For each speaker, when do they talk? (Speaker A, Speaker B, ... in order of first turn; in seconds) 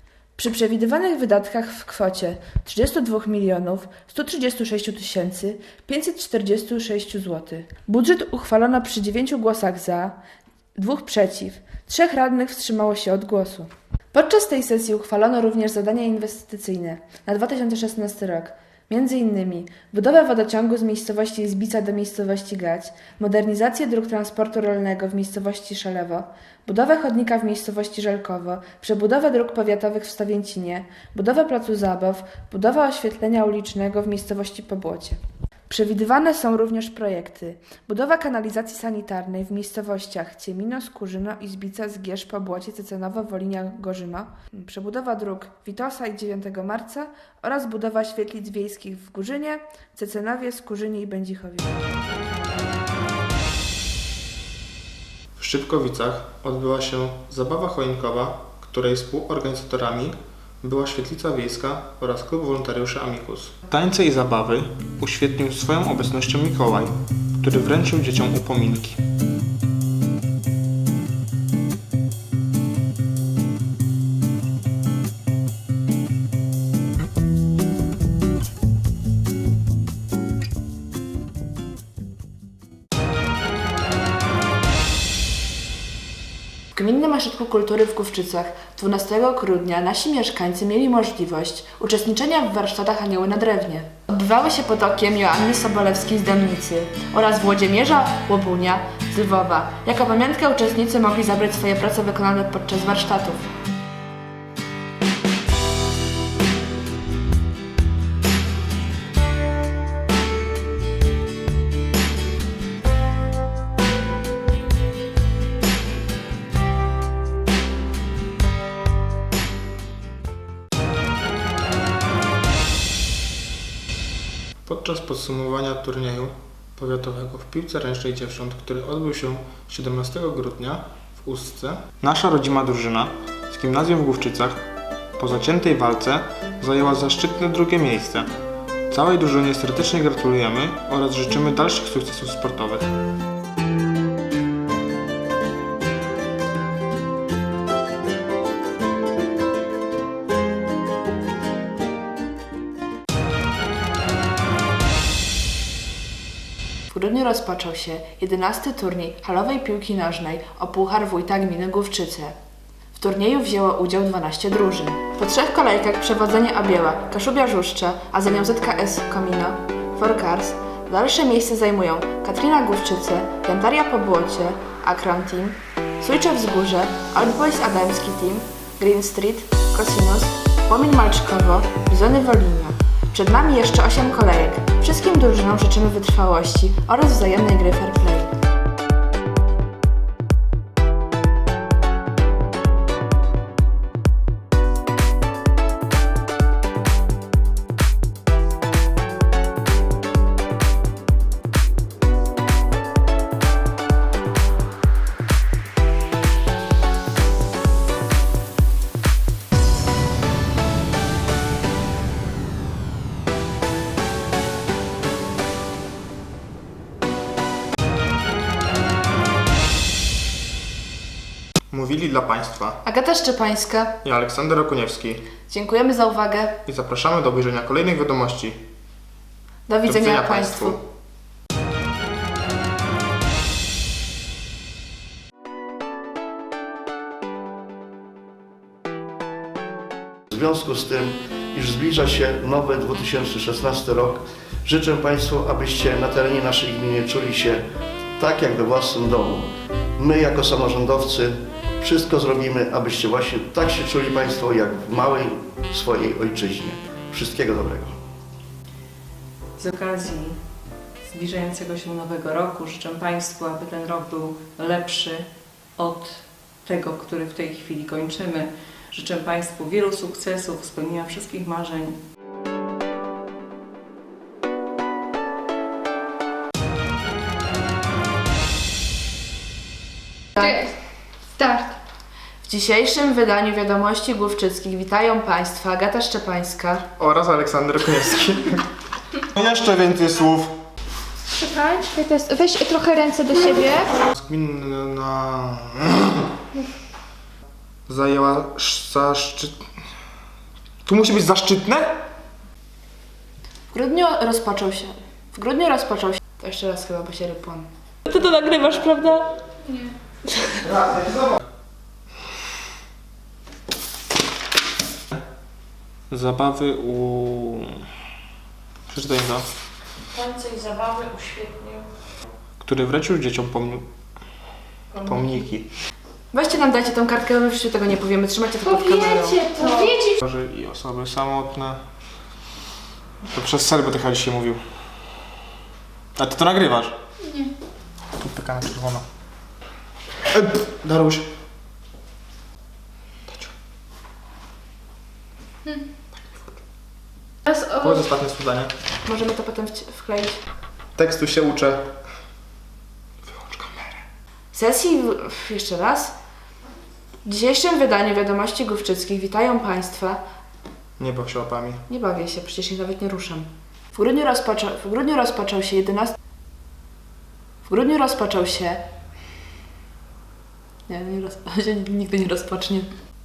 Speaker A: 0.4-10.2, 10.8-51.8, 86.7-103.5, 156.9-162.3, 162.9-188.3, 222.8-224.0, 225.5-226.6, 229.7-230.8, 282.4-286.9, 291.8-293.9, 303.7-309.3, 326.3-329.8, 349.0-350.4, 354.5-356.1, 357.2-360.2, 361.9-366.2, 367.6-368.8, 370.9-372.9
Speaker B: 55.4-69.0, 124.7-134.7, 135.2-138.3, 138.9-142.9, 221.7-222.8, 224.0-225.3, 226.7-228.6, 229.9-230.8, 287.0-288.7, 289.2-290.6, 294.1-296.3, 297.9-299.6, 300.9-302.0, 310.9-311.2, 316.1-317.9, 318.9-319.5, 322.6-323.9, 324.9-325.7, 330.2-331.8, 333.3-334.6, 336.2-337.0, 338.2-339.1, 340.3-341.3, 343.3-343.5, 346.2-346.5, 347.7-348.7, 351.0-351.9, 353.3-354.0, 361.0-361.8
Speaker C: 240.3-247.6, 248.2-258.0
Speaker D: 259.6-260.4, 261.0-272.0, 320.1-321.9
Speaker E: 280.4-280.7, 281.4-281.8, 291.3-293.8, 309.6-309.9, 329.4-330.1, 337.2-337.5, 347.5-347.9